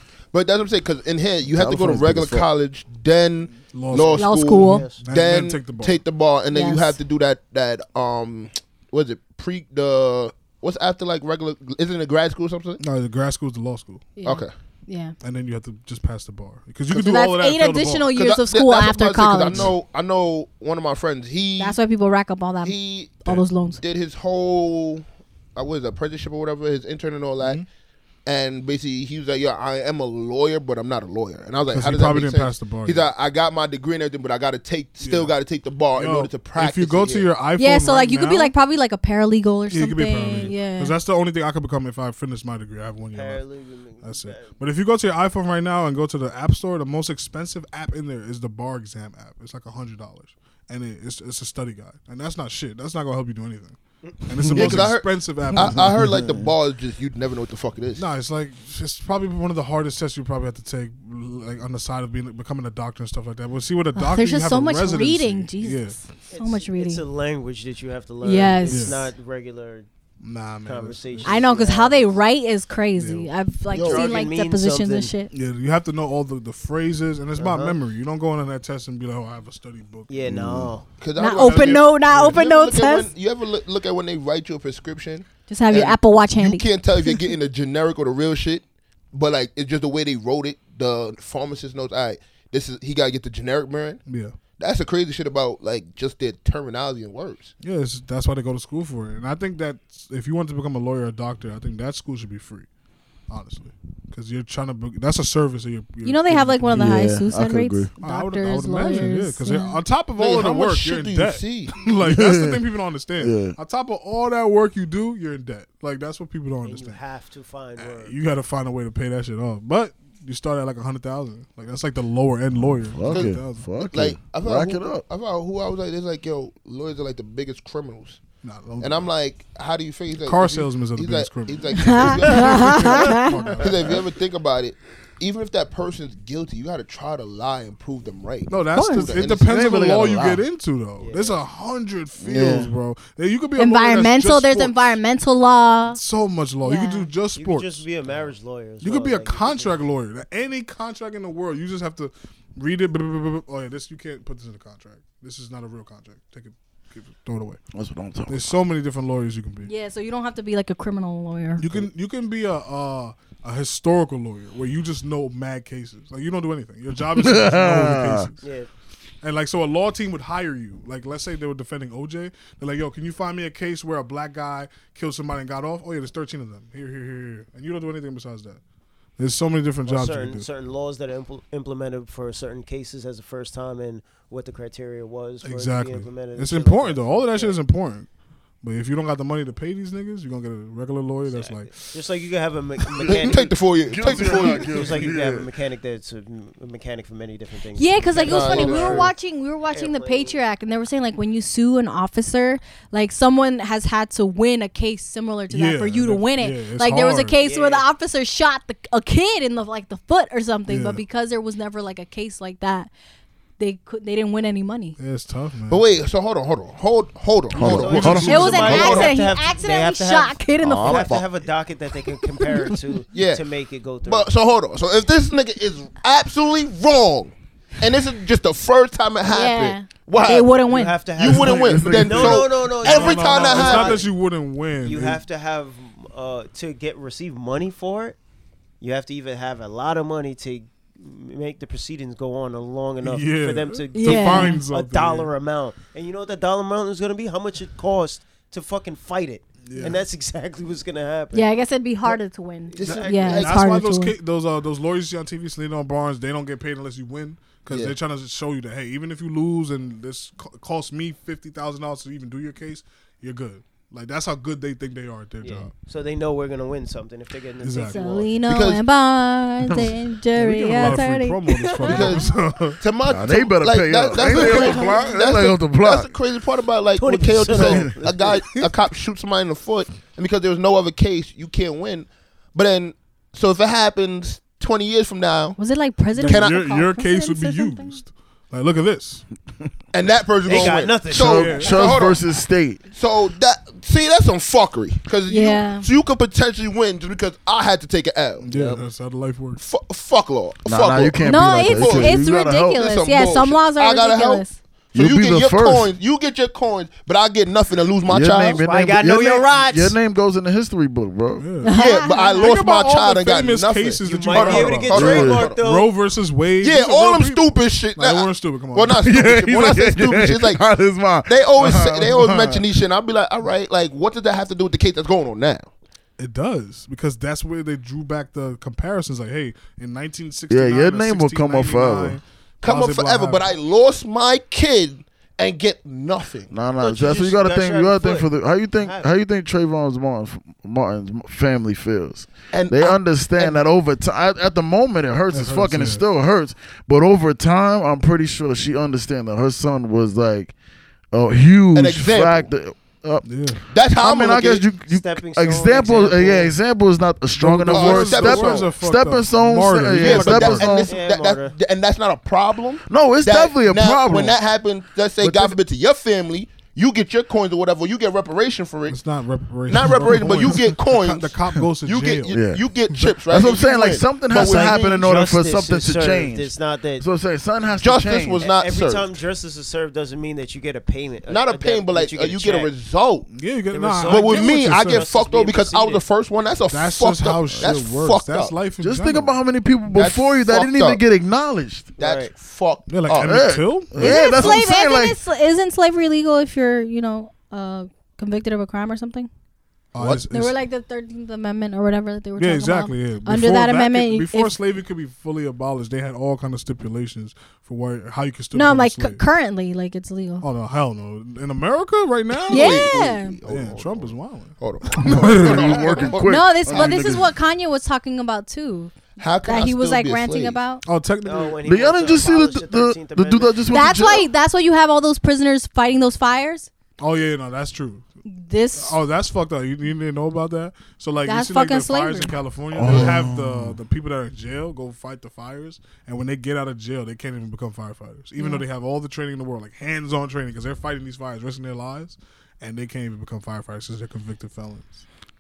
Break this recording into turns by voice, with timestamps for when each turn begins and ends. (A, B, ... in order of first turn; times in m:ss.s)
0:00.3-0:12.8 A
0:01.4-0:02.5 B
0:03.5-0:06.0 C
0:04.2-0:04.9 D
0:04.6-0:05.0 E
0:06.5-0:07.0 D
0:12.8-0:14.2 C
0:14.2-0:15.2 D
0:14.2-0:14.5 A
0:15.2-0:18.1 C
0:16.9-0:17.2 A
0:16.9-0:19.7 D
0:18.1-0:21.8 A
0:21.6-0:23.8 D
0:22.6-0:23.3 A
0:23.8-0:25.0 A
0:25.6-0:27.6 A
0:27.4-0:27.7 C
0:28.3-0:37.3 A
0:31.7-0:33.1 C
0:35.0-0:35.3 C
0:36.0-0:38.5 C
0:37.6-0:40.9 D
0:39.7-0:43.4 C
0:43.1-0:44.6 E
0:44.0-0:56.2 C
0:54.4-0:54.9 B
0:54.5-0:58.0 A
0:55.6-0:56.5 B
0:58.0-1:06.0 C
1:04.0-1:07.0 D
1:06.3-1:09.9 E
1:08.2-1:09.0 D
1:08.6-1:09.1 C
1:10.2-1:11.4 C
1:10.6-1:12.1 E
1:11.2-1:15.3 D
1:13.0-1:13.3 C
1:13.7-1:14.2 A
1:13.7-1:15.1 E
1:15.3-1:20.1 C
1:17.4-1:17.8 E
1:20.1-1:20.9 E
1:20.2-1:20.7 B
1:21.0-1:34.0 A
1:21.2-1:23.1 D
1:21.4-1:22.4 C
1:25.5-1:27.3 D
1:34.1-1:34.4 C
1:34.6-1:37.5 A
1:37.6-1:42.7 C
1:43.3-1:47.0 C
1:46.0-1:49.8 D
1:46.7-1:47.9 B
1:48.0-1:57.0 C
1:50.2-1:51.8 A
1:52.0-1:52.6 B
1:53.2-1:53.6 B
1:56.6-1:58.2 E
1:57.8-2:03.7 C
2:02.9-2:05.0 B
2:03.1-2:08.2 A
2:08.4-2:09.1 C
2:08.8-2:19.5 A
2:10.2-2:14.0 C
2:11.8-2:13.3 D
2:18.5-2:24.9 C
2:18.7-2:19.1 D
2:19.2-2:20.4 B
2:21.0-2:21.4 E
2:22.2-2:22.7 B
2:23.6-2:26.0 D
2:25.9-2:27.8 C
2:26.6-2:27.1 D
2:27.4-2:29.8 E
2:28.8-2:37.6 C
2:37.7-2:38.5 B
2:38.3-2:39.7 C
2:39.6-2:41.6 D
2:41.6-2:48.4 C
2:47.2-2:48.3 B
2:48.4-2:48.7 E
2:49.2-2:58.6 C
2:59.2-3:00.5 C
2:59.9-3:07.6 E
3:05.4-3:08.1 C
3:08.6-3:11.9 C
3:11.3-3:19.1 E
3:13.1-3:15.1 A
3:13.9-3:15.5 B
3:17.8-3:32.9 D
3:18.2-3:19.1 A
3:19.7-3:20.4 E
3:25.5-3:27.4 C
3:27.4-3:27.9 E
3:30.7-3:31.0 C
3:33.6-3:35.0 D
3:35.0-3:35.8 C
3:35.7-3:39.1 A
3:37.5-3:39.1 B
3:37.6-3:44.3 E
3:38.3-3:41.1 D
3:40.6-3:41.3 B
3:43.1-3:43.4 A
3:44.0-3:50.6 A
3:49.3-3:51.0 D
3:50.6-3:54.1 E
3:51.1-3:54.0 A
3:51.2-3:52.5 B
3:52.7-3:55.2 C
3:54.8-3:58.2 E
3:58.8-4:11.5 E
4:03.0-4:05.3 C
4:04.0-4:04.6 D
4:09.7-4:10.0 C
4:11.3-4:14.2 D
4:12.7-4:13.4 E
4:12.8-4:13.6 A
4:12.9-4:25.7 C
4:17.7-4:18.0 A
4:25.4-4:28.3 E
4:27.6-4:28.1 C
4:27.9-4:32.3 D
4:28.4-4:28.8 A
4:29.7-4:29.9 B
4:30.3-4:32.8 C
4:31.8-4:45.6 A
4:33.1-4:36.2 B
4:37.0-4:38.7 E
4:37.5-4:38.0 B
4:45.6-4:48.0 D
4:46.2-4:49.3 C
4:46.3-4:46.6 A
4:49.9-4:52.3 A
4:50.5-4:51.8 E
4:51.1-4:52.8 B
4:51.3-4:52.0 C
4:52.9-4:58.5 A
4:55.3-4:55.9 D
4:58.4-4:59.6 C
4:58.5-4:58.8 E
4:59.6-5:08.6 A
5:00.7-5:02.8 B
5:01.2-5:04.6 D
5:04.9-5:05.9 B
5:08.0-5:11.5 B
5:08.6-5:10.0 E
5:11.4-5:19.1 C
5:11.6-5:12.5 D
5:11.7-5:15.6 A
5:14.0-5:15.9 E
5:14.9-5:15.4 B
5:16.6-5:20.6 A
5:18.9-5:22.7 B
5:21.3-5:25.7 A
5:26.2-5:33.5 C
5:30.5-5:32.2 B
5:32.6-5:36.5 A
5:36.5-5:50.5 B
5:36.8-5:39.1 E
5:42.5-5:43.7 A
5:45.3-5:46.0 C
5:51.1-6:00.9 B
5:51.7-5:52.5 A
5:53.2-5:53.6 C
5:53.7-5:54.7 A
5:54.9-5:56.6 E
5:57.4-6:00.8 C
5:57.7-5:58.7 A
5:59.9-6:09.0 A
6:00.6-6:01.6 E
6:02.9-6:04.4 B
6:05.2-6:05.6 B
6:08.9-6:12.4 C
6:09.7-6:15.1 A
6:12.3-6:12.6 B
6:13.2-6:18.4 B
6:14.3-6:17.1 E
6:17.8-6:19.1 A
6:18.4-6:22.7 E
6:21.3-6:23.3 A
6:23.3-6:25.1 C
6:23.7-6:26.0 E
6:24.0-6:28.6 A
6:26.7-6:29.4 C
6:28.8-6:31.9 B
6:29.9-6:31.0 A
6:32.0-6:32.3 E
6:32.0-6:33.5 A
6:32.9-6:34.4 C
6:33.2-6:35.2 B
6:34.0-6:39.3 D
6:39.9-6:40.5 C
6:40.0-6:40.3 A
6:40.3-6:44.6 D
6:42.4-6:49.2 C
6:48.5-6:50.5 D
6:50.4-6:56.0 C
6:52.3-6:57.1 A
6:52.5-6:53.4 D
6:55.1-6:57.3 B
6:56.2-7:00.8 D
6:59.2-7:00.6 A
7:00.8-7:01.6 C
7:01.2-7:03.6 E
7:01.6-7:04.3 B
7:03.7-7:06.7 D
7:07.0-7:08.0 C
7:08.3-7:09.0 D
7:08.8-7:25.0 C
7:11.3-7:12.4 D
7:12.7-7:13.8 B
7:12.9-7:13.2 A
7:18.4-7:18.6 D